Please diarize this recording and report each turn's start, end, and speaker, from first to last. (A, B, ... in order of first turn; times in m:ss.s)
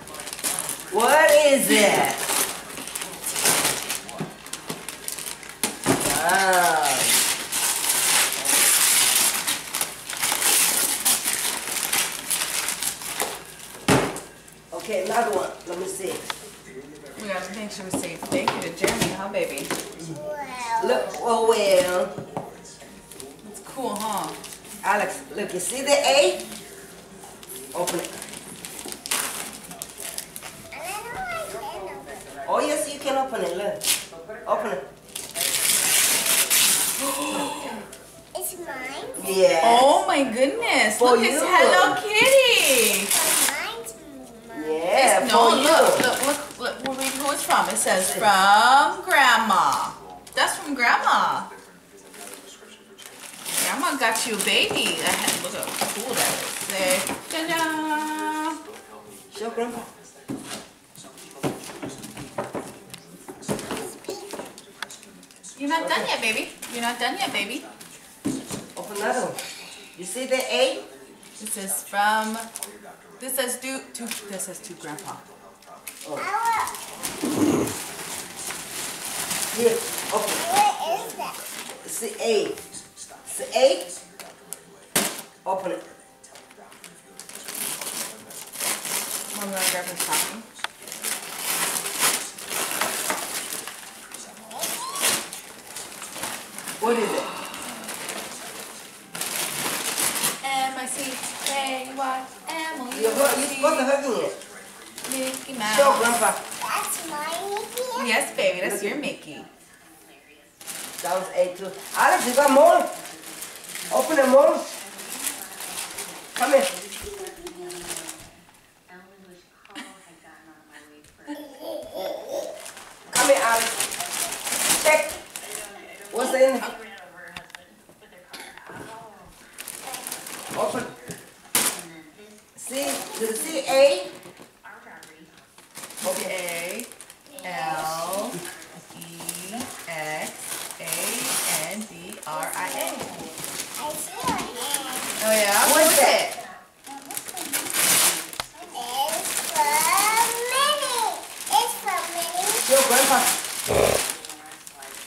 0:00.9-0:02.2 A
0:06.0-0:07.2 A
0:14.7-0:16.2 A
0:17.2-0:19.7 B
0:20.0-0:21.2 C
0:20.8-0:22.1 A
0:23.4-0:24.4 B
0:24.8-0:26.4 A
0:27.7-0:28.1 A
0:30.7-0:32.4 C
0:32.4-0:33.8 A
0:34.4-0:34.8 A
0:37.0-0:37.8 B
0:38.3-0:39.2 C
0:39.2-0:40.0 A
0:39.6-0:43.1 B
0:41.0-0:42.0 A
0:43.1-0:44.8 C
0:44.5-0:46.1 A
0:44.9-0:51.5 B
0:48.0-0:48.3 A
0:53.6-0:58.6 B
0:59.3-0:59.9 A
1:03.7-1:04.4 C
1:05.5-1:07.7 B
1:05.8-1:06.1 A
1:08.7-1:09.4 A
1:10.0-1:10.8 A
1:11.4-1:12.5 B
1:13.2-1:15.2 B
1:16.2-1:16.9 C
1:19.5-1:20.4 A
1:20.4-1:21.4 C
1:21.8-1:22.6 A
1:23.2-1:23.9 A
1:25.4-1:25.8 A
1:29.3-1:30.4 B
1:36.8-1:37.3 A
1:40.4-1:43.9 B
1:42.9-1:44.4 A
1:45.0-1:46.2 B
1:45.6-1:46.4 A
1:46.6-1:48.1 C
1:47.9-1:49.5 B
1:48.6-1:49.1 A
1:51.0-1:52.9 A
1:53.9-1:54.7 A
1:56.3-1:56.7 A
1:57.0-1:57.8 C
2:01.6-2:02.3 C
2:03.1-2:03.8 A
2:04.7-2:05.1 A
2:06.1-2:06.7 A
2:10.5-2:10.9 A
2:12.6-2:14.1 A
2:16.0-2:16.3 A
2:16.0-2:16.9 B
2:17.4-2:23.2 B
2:23.8-2:25.2 C
2:25.2-2:26.4 B
2:25.6-2:26.3 A
2:28.7-2:32.6 C
2:32.6-2:33.3 A